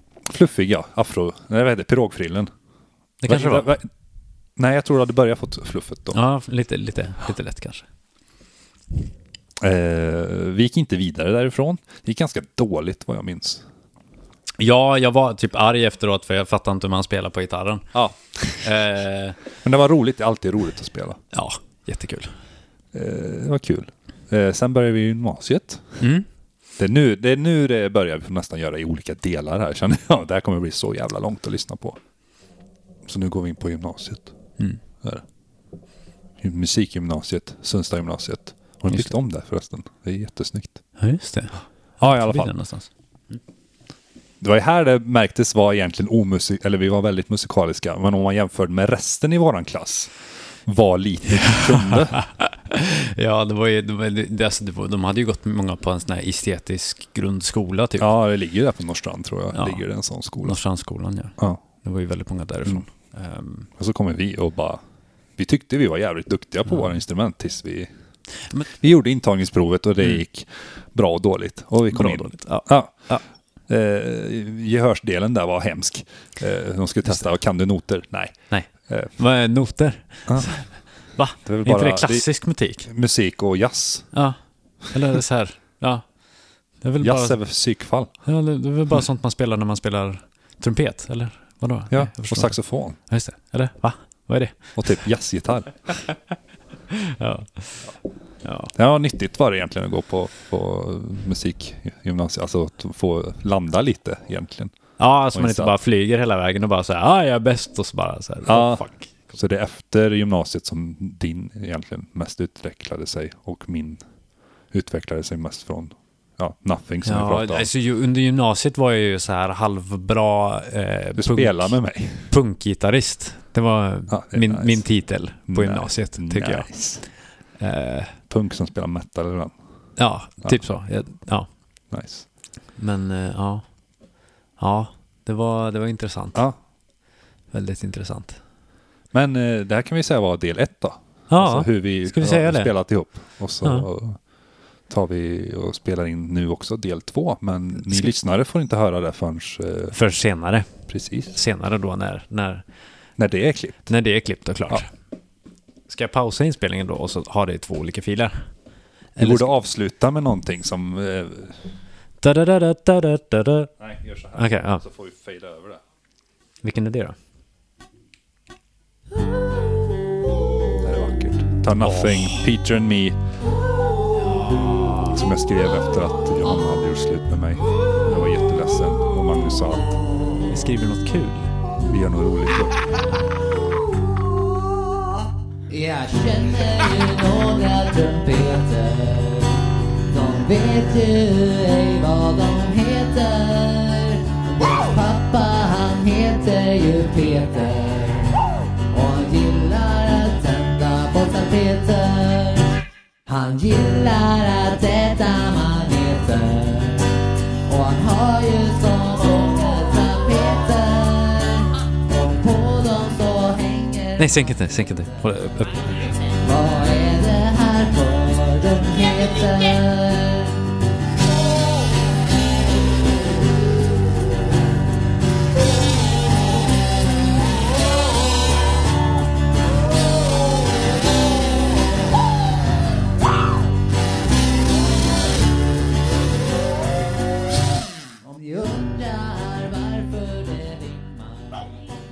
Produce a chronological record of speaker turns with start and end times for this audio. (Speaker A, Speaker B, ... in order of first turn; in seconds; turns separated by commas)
Speaker A: 0.2-2.5, Speaker B: 3.2-3.7, Speaker A: 3.3-3.9, Speaker A: 4.6-6.2, Speaker B: 6.1-7.8, Speaker A: 9.6-13.6, Speaker B: 14.6-17.9, Speaker A: 17.9-18.6, Speaker B: 18.6-19.4, Speaker A: 19.6-21.2, Speaker B: 21.3-22.3, Speaker A: 22.9-26.0, Speaker B: 26.0-26.2, Speaker A: 26.8-32.0, Speaker A: 33.0-34.3, Speaker A: 36.4-40.8, Speaker B: 41.0-42.9, Speaker A: 42.0-42.5, Speaker A: 44.4-50.1, Speaker A: 50.6-52.1, Speaker B: 51.5-58.1, Speaker A: 58.0-60.6, Speaker B: 59.5-59.8, Speaker B: 60.4-63.7, Speaker A: 63.8-64.8, Speaker A: 65.4-67.9, Speaker A: 68.8-72.9, Speaker B: 71.9-73.2, Speaker A: 73.7-78.3, Speaker B: 78.5-82.9, Speaker A: 81.5-82.3, Speaker A: 82.8-84.1, Speaker B: 84.9-86.0, Speaker B: 86.8-87.4, Speaker A: 87.0-88.1, Speaker B: 88.2-95.0, Speaker A: 91.9-93.0, Speaker A: 94.8-95.7, Speaker B: 96.9-97.9, Speaker B: 98.4-98.7, Speaker A: 98.7-104.7, Speaker B: 105.0-109.3, Speaker A: 105.3-105.7, Speaker A: 108.5-114.0, Speaker A: 114.7-117.7, Speaker B: 117.0-126.7, Speaker A: 121.2-122.3, Speaker A: 124.1-124.8, Speaker A: 125.5-127.0, Speaker B: 127.6-128.1, Speaker A: 128.3-129.6, Speaker B: 130.0-131.5, Speaker A: 131.9-132.2, Speaker B: 132.8-133.6, Speaker B: 134.6-136.4, Speaker B: 137.5-138.4, Speaker A: 139.1-144.2, Speaker B: 141.3-142.7, Speaker A: 144.9-149.9, Speaker B: 149.9-150.7, Speaker A: 150.9-151.4, Speaker B: 151.3-152.6, Speaker A: 153.2-153.9, Speaker B: 153.9-154.9, Speaker B: 155.9-158.4, Speaker B: 159.2-159.5, Speaker A: 159.2-161.6, Speaker B: 162.2-163.7, Speaker A: 163.8-165.8, Speaker B: 164.3-164.8, Speaker B: 166.6-167.2, Speaker A: 170.8-173.2, Speaker B: 171.8-172.4, Speaker B: 174.2-175.2, Speaker A: 175.1-179.9, Speaker B: 180.5-181.5, Speaker A: 181.9-182.8, Speaker C: 185.7-214.3, Speaker B: 214.2-216.1, Speaker C: 216.3-220.6, Speaker C: 238.2-241.9